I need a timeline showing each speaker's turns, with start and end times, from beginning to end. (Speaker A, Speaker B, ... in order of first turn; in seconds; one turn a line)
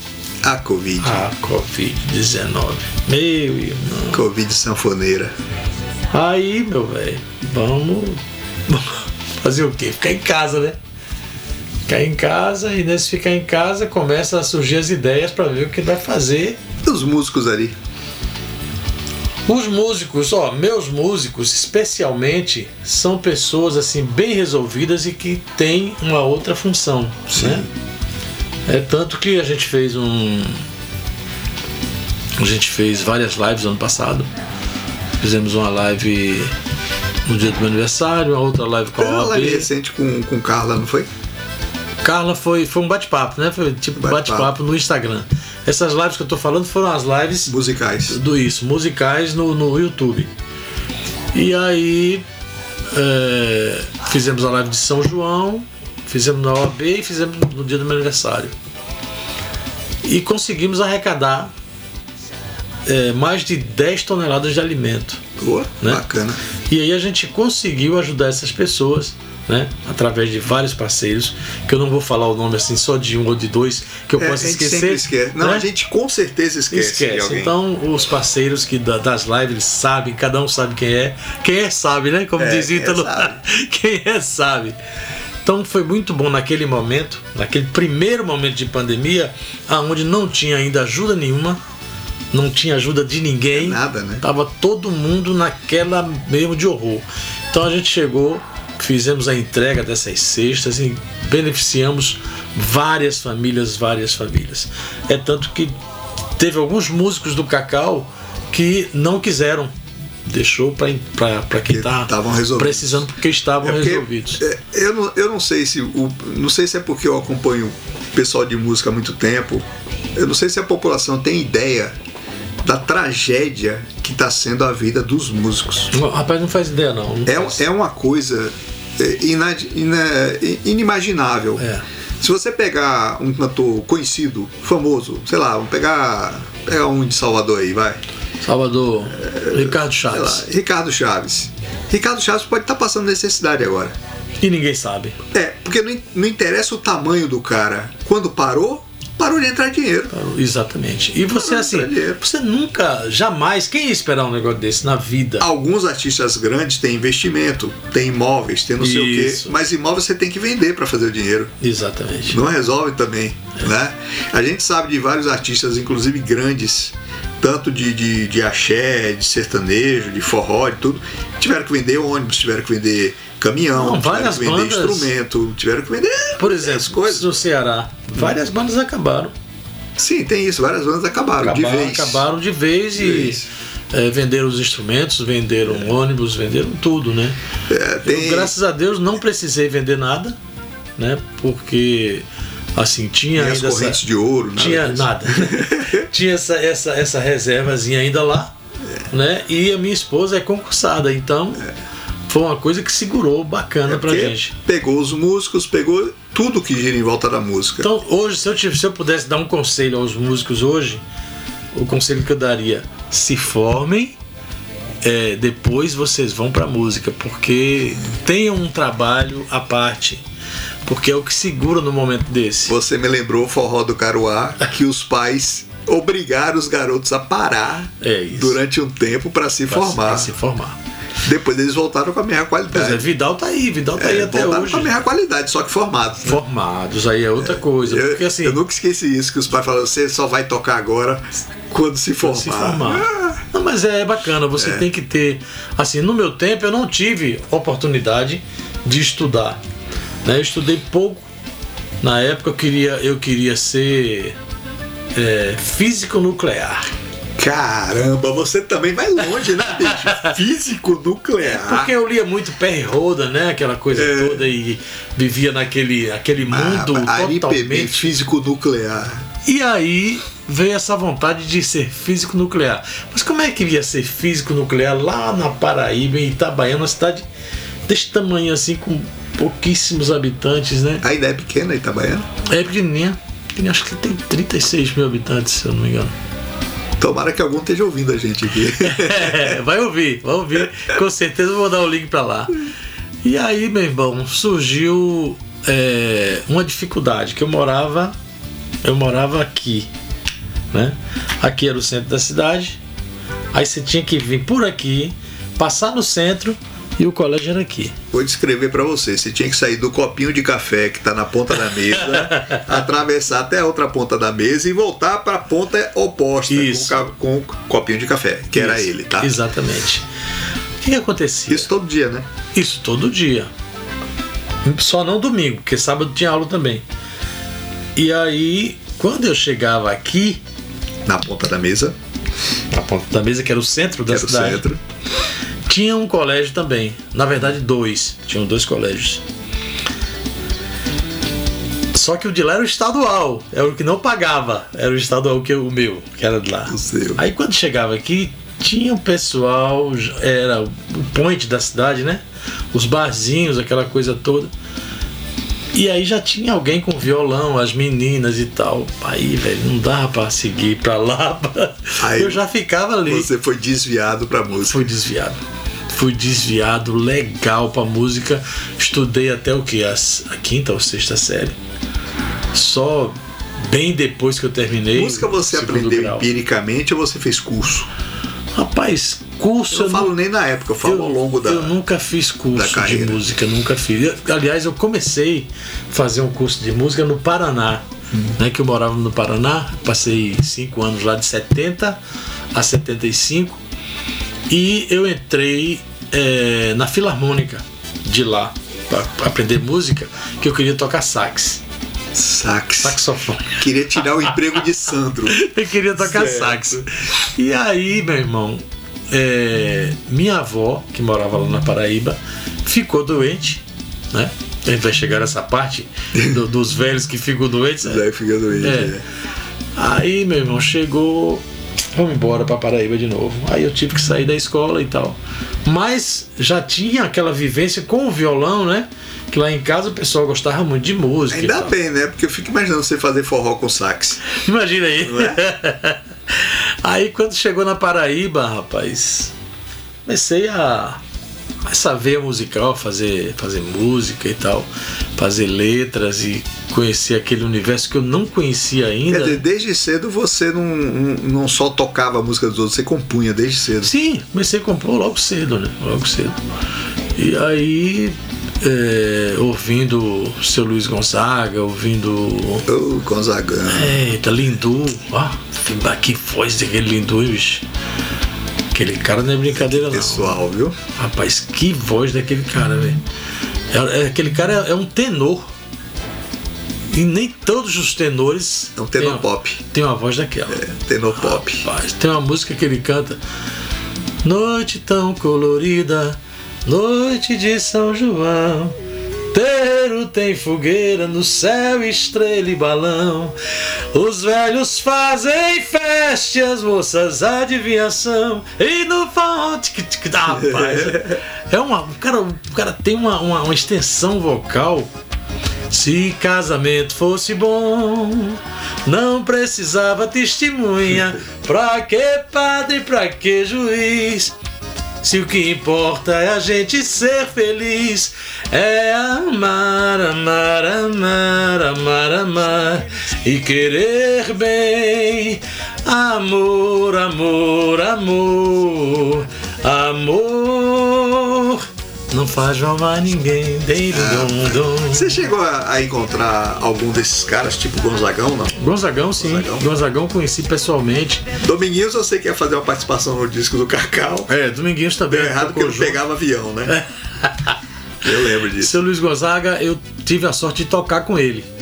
Speaker A: 0.4-1.2
Speaker B: 1.0-4.2
Speaker A: 4.1-5.3
Speaker B: 6.1-10.8
Speaker B: 11.9-16.6
Speaker A: 16.8-17.7
Speaker B: 19.5-27.7
Speaker A: 27.3-27.7
Speaker B: 28.6-30.6
Speaker B: 32.4-34.3
Speaker B: 35.2-36.5
Speaker B: 37.2-39.7
Speaker A: 39.0-41.1
Speaker B: 42.0-47.5
Speaker A: 44.0-44.5
Speaker A: 47.5-48.2
Speaker B: 48.1-50.3
Speaker B: 51.3-52.2
Speaker B: 52.9-58.5
Speaker B: 60.0-61.5
Speaker B: 62.9-65.2
Speaker A: 65.4-66.4
Speaker B: 65.8-66.0
Speaker B: 66.7-75.7
Speaker A: 74.2-77.5
Speaker B: 76.7-84.8
Speaker A: 82.4-83.4
Speaker B: 85.4-91.6
Speaker B: 92.3-105.8
Speaker A: 93.5-94.2
Speaker B: 106.4-109.7
Speaker B: 110.2-114.4
Speaker A: 111.7-113.1
Speaker A: 113.6-122.0
Speaker A: 122.6-125.9
Speaker B: 125.9-127.6
Speaker A: 127.2-131.7
Speaker B: 131.6-131.8
Speaker A: 132.2-138.0
Speaker B: 138.4-140.4
Speaker A: 139.2-143.9
Speaker B: 144.4-145.2
Speaker A: 145.3-150.1
Speaker B: 150.1-155.5
Speaker A: 151.3-152.2
Speaker A: 155.4-161.5
Speaker B: 158.8-159.6
Speaker B: 161.6-162.4
Speaker A: 162.3-177.3
Speaker B: 173.7-175.1
Speaker B: 176.4-179.3
Speaker A: 180.0-182.2
Speaker B: 181.4-187.4
Speaker A: 183.0-183.5
Speaker A: 187.7-188.5
Speaker B: 188.0-190.4
Speaker B: 191.0-192.2
Speaker B: 192.8-194.0
Speaker A: 193.3-196.1
Speaker B: 194.5-198.5
Speaker B: 199.1-201.7
Speaker B: 202.3-204.5
Speaker A: 203.9-207.9
Speaker B: 207.8-211.0
Speaker B: 211.7-214.2
Speaker B: 215.0-220.2
Speaker B: 220.8-222.8
Speaker A: 222.7-230.3
Speaker B: 228.0-228.6
Speaker B: 229.7-230.8
Speaker A: 231.2-233.1
Speaker B: 232.7-235.0
Speaker A: 233.9-236.4
Speaker B: 236.2-238.6
Speaker A: 237.4-243.4
Speaker B: 242.2-249.6
Speaker A: 244.6-244.8
Speaker B: 250.2-251.3
Speaker B: 252.0-254.3
Speaker B: 255.1-256.9
Speaker A: 257.4-261.9
Speaker B: 260.1-260.3
Speaker B: 261.4-268.1
Speaker A: 263.9-264.5
Speaker A: 266.5-269.2
Speaker B: 269.4-277.2
Speaker B: 277.9-281.0
Speaker A: 281.0-282.3
Speaker B: 282.4-286.1
Speaker A: 287.0-289.6
Speaker B: 288.8-292.6
Speaker B: 293.2-298.1
Speaker B: 298.8-299.9
Speaker B: 300.7-302.8
Speaker B: 303.5-307.9
Speaker A: 308.1-319.3
Speaker B: 316.5-317.1
Speaker B: 318.5-320.1
Speaker B: 320.8-321.7
Speaker A: 321.5-322.3
Speaker B: 322.5-323.5
Speaker B: 324.6-326.8
Speaker B: 327.9-330.4
Speaker A: 331.1-331.9
Speaker B: 332.7-334.6
Speaker A: 334.1-334.8
Speaker B: 335.6-339.2
Speaker B: 341.9-354.5
Speaker A: 346.7-347.2
Speaker B: 355.7-363.3
Speaker A: 362.0-362.4
Speaker A: 363.0-364.9
Speaker B: 364.6-365.4
Speaker B: 365.9-371.6
Speaker B: 372.5-376.3
Speaker A: 374.9-377.9
Speaker B: 378.5-380.1
Speaker A: 379.7-381.7
Speaker B: 380.8-392.0
Speaker A: 382.5-383.2
Speaker B: 392.5-393.6
Speaker B: 394.5-401.6
Speaker A: 402.1-405.4
Speaker B: 402.8-403.6
Speaker B: 405.3-418.1
Speaker A: 406.0-406.9
Speaker A: 417.8-419.0
Speaker B: 418.6-418.9
Speaker B: 419.7-421.4
Speaker B: 421.9-431.7
Speaker A: 431.3-434.2
Speaker B: 434.3-439.3
Speaker A: 435.0-435.4
Speaker B: 440.1-441.0
Speaker B: 441.6-449.4
Speaker A: 449.1-453.9
Speaker B: 453.8-456.4
Speaker B: 457.2-462.7
Speaker A: 462.7-464.0
Speaker B: 463.7-467.6
Speaker B: 468.7-473.0
Speaker A: 469.5-470.8
Speaker B: 473.7-475.5
Speaker B: 476.9-480.6
Speaker A: 478.8-479.6
Speaker A: 480.5-481.7
Speaker B: 481.2-483.2
Speaker B: 484.2-488.8
Speaker B: 489.3-493.4
Speaker B: 493.9-504.9
Speaker A: 500.3-501.2
Speaker B: 505.7-514.3
Speaker B: 515.0-535.2
Speaker A: 533.9-538.6
Speaker B: 538.6-541.3
Speaker A: 539.1-539.7
Speaker A: 541.4-544.3
Speaker B: 544.3-546.0
Speaker A: 545.1-546.8
Speaker B: 546.7-547.6
Speaker A: 548.0-548.8
Speaker B: 548.5-551.5